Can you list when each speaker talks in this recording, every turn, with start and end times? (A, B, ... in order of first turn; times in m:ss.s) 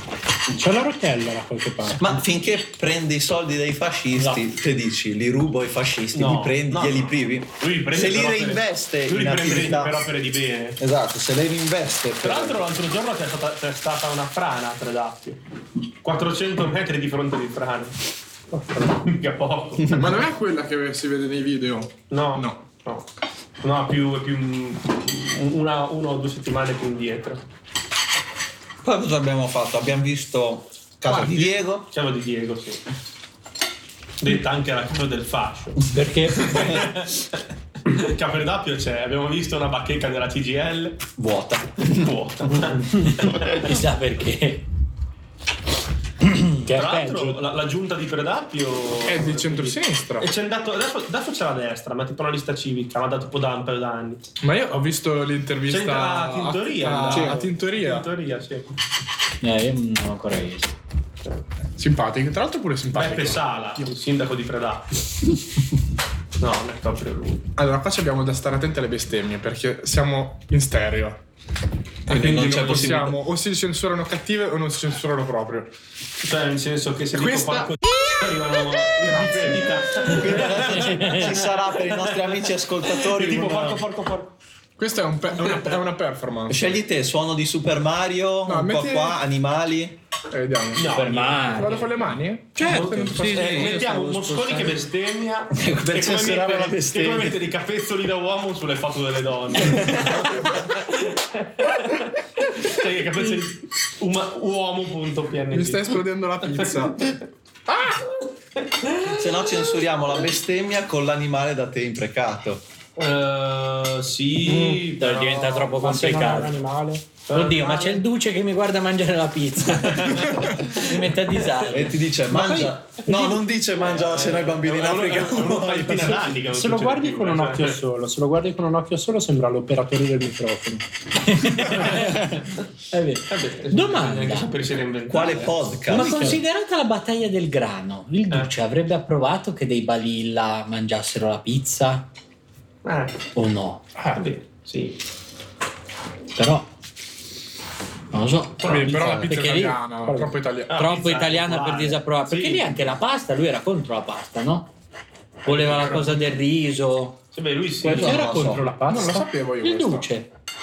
0:00.5-0:02.2 A
0:01.9-0:10.1 B
0:06.1-0:10.8 C
0:10.8-0:12.6 B
0:12.2-0:15.4 C
0:16.0-0:18.0 C
0:18.5-0:19.0 A
0:18.9-0:20.1 C
0:19.9-0:22.6 D
0:22.1-0:23.1 C
0:23.6-0:27.4 C
0:28.8-0:31.9 B
0:31.1-0:31.5 D
0:31.9-0:32.8 C
0:34.2-0:41.1 C
0:35.9-0:36.8 A
0:41.2-0:42.1 B
0:41.8-0:43.8 C
0:43.2-0:44.6 E
0:46.6-0:47.4 A
0:46.7-0:54.2 C
0:49.0-0:50.3 D
0:54.4-0:58.1 D
0:55.7-0:58.7 C
0:59.4-1:00.7 E
1:01.8-1:03.9 D
1:02.9-1:04.9 C
1:06.4-1:07.5 C
1:07.6-1:11.2 D
1:12.0-1:15.7 D
1:12.1-1:13.2 B
1:16.2-1:24.3 C
1:17.1-1:17.7 D
1:19.0-1:20.1 D
1:20.1-1:23.8 B
1:20.8-1:21.2 E
1:24.8-1:26.8 D
1:26.5-1:30.0 B
1:28.5-1:29.2 D
1:30.3-1:33.6 D
1:30.8-1:31.8 C
1:30.8-1:31.8 E
1:32.5-1:34.8 E
1:32.6-1:46.0 C
1:35.5-1:37.3 B
1:45.5-1:48.1 D
1:48.6-1:49.6 C
1:49.0-1:52.6 B
1:53.0-1:55.7 C
1:54.5-1:54.8 A
1:54.8-1:56.5 E
1:55.7-1:57.0 A
1:57.3-1:58.0 C
1:57.3-2:02.7 E
1:59.8-2:00.8 C
2:01.3-2:01.6 C
2:01.7-2:06.4 B
2:03.3-2:07.8 C
2:06.5-2:10.8 A
2:11.2-2:14.5 E
2:13.3-2:15.7 C
2:15.1-2:16.4 B
2:15.9-2:22.1 E
2:15.9-2:16.4 A
2:22.8-2:23.2 C
2:23.3-2:23.8 E
2:24.0-2:24.2 D
2:24.1-2:25.0 C
2:26.3-2:26.7 E
2:28.1-2:29.8 E
2:28.6-2:28.9 C
2:28.6-2:30.8 D
2:30.7-2:32.7 C
2:30.7-2:34.7 E
2:35.4-2:37.2 E
2:35.5-2:36.0 C
2:37.3-2:38.4 C
2:37.8-2:38.7 B
2:37.8-2:39.3 A
2:38.8-2:40.1 D
2:39.6-2:40.3 E